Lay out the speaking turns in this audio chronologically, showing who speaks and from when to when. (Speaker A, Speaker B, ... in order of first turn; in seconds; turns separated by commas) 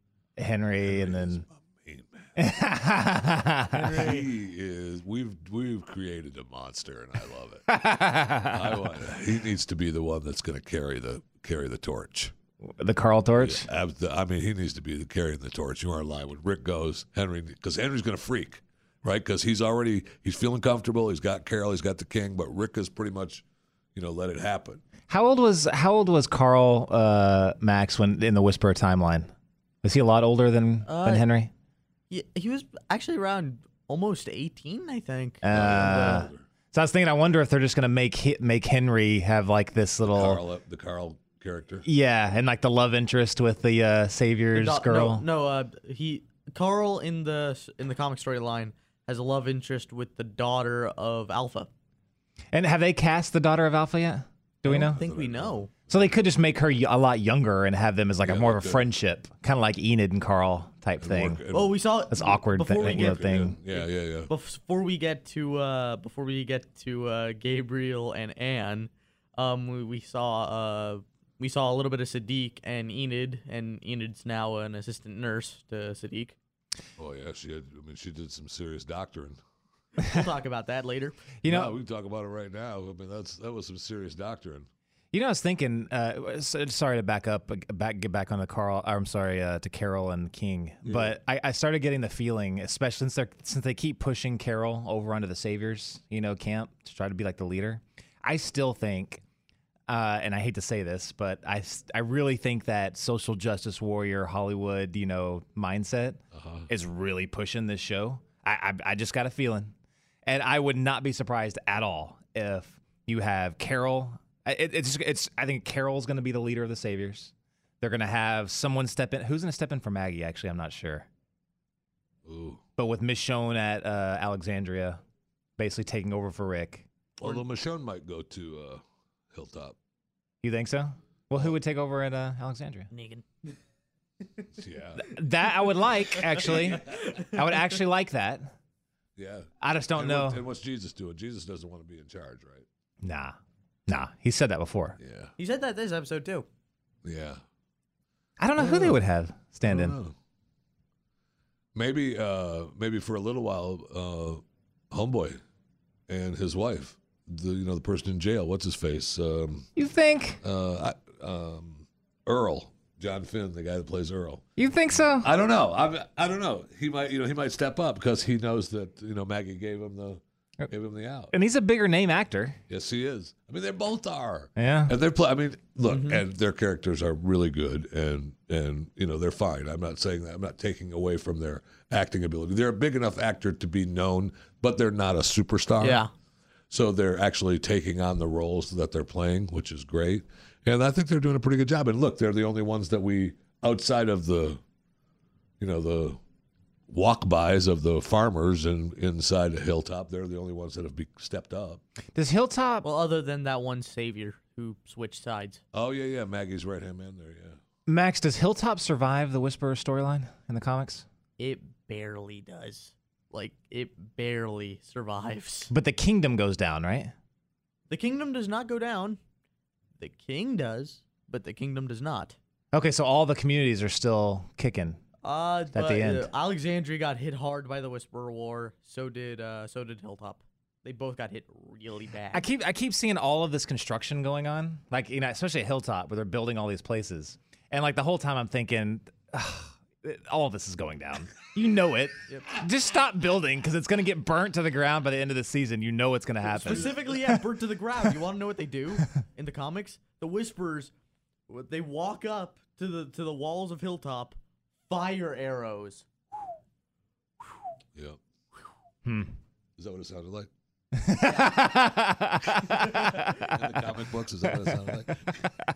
Speaker A: 0.4-1.4, Speaker B: 0.8-2.4, Speaker A: 2.4-4.0, Speaker C: 3.7-4.3, Speaker B: 3.8-7.7, Speaker A: 7.7-8.8, Speaker B: 8.5-12.3, Speaker A: 12.7-13.6, Speaker B: 13.4-24.8, Speaker A: 25.1-29.3, Speaker A: 29.8-31.5, Speaker C: 30.9-31.2, Speaker C: 32.1-36.3, Speaker A: 35.4-40.4, Speaker B: 35.5-36.4, Speaker B: 40.0-41.8, Speaker A: 41.8-45.2, Speaker C: 44.5-51.7, Speaker A: 52.5-55.0, Speaker C: 54.6-55.7, Speaker B: 54.7-56.2, Speaker A: 55.9-61.4, Speaker B: 58.2-58.8, Speaker B: 61.0-61.8, Speaker C: 61.5-76.3, Speaker A: 62.1-63.5, Speaker B: 62.8-64.3, Speaker B: 77.0-79.4, Speaker C: 80.0-81.3, Speaker A: 81.4-81.7, Speaker B: 81.4-84.7, Speaker A: 85.1-99.2, Speaker B: 90.8-91.2, Speaker A: 99.9-109.7, Speaker B: 106.3-106.7, Speaker A: 110.2-121.1, Speaker B: 122.2-122.6, Speaker A: 122.8-125.0, Speaker A: 125.6-126.8, Speaker B: 127.2-129.8, Speaker A: 130.4-132.9, Speaker C: 132.9-133.5, Speaker B: 134.5-135.1, Speaker A: 135.0-138.5, Speaker C: 136.2-137.5, Speaker B: 136.4-137.0, Speaker B: 139.2-142.7, Speaker A: 139.6-140.4, Speaker A: 143.0-143.3, Speaker A: 143.9-145.0, Speaker B: 145.0-145.3, Speaker C: 145.4-146.5, Speaker B: 147.0-147.4, Speaker A: 148.4-150.0, Speaker B: 148.6-149.0, Speaker B: 149.7-150.2, Speaker B: 151.7-155.4, Speaker B: 156.1-159.7, Speaker A: 159.8-160.4, Speaker B: 160.4-164.5, Speaker A: 164.6-165.3, Speaker B: 165.1-171.3, Speaker A: 171.3-172.6, Speaker B: 172.7-186.0, Speaker A: 174.6-174.9, Speaker C: 175.9-176.2, Speaker C: 185.8-186.1, Speaker B: 186.7-194.6, Speaker B: 195.6-196.2, Speaker B: 196.9-201.8, Speaker A: 202.1-202.8, Speaker C: 202.8-205.6, Speaker B: 205.7-207.6, Speaker A: 207.9-211.0, Speaker C: 211.4-215.7, Speaker A: 215.7-217.1, Speaker C: 217.9-219.2, Speaker C: 220.0-222.4, Speaker A: 222.7-225.0, Speaker C: 225.2-232.4, Speaker A: 225.7-226.3, Speaker A: 232.3-247.0, Speaker C: 246.4-250.9, Speaker B: 246.7-246.9, Speaker C: 251.5-256.1, Speaker B: 257.9-258.2, Speaker A: 259.1-259.3, Speaker B: 259.8-260.5, Speaker A: 260.9-263.4, Speaker C: 261.2-261.7, Speaker C: 262.8-263.4, Speaker B: 263.2-265.5, Speaker A: 264.5-264.8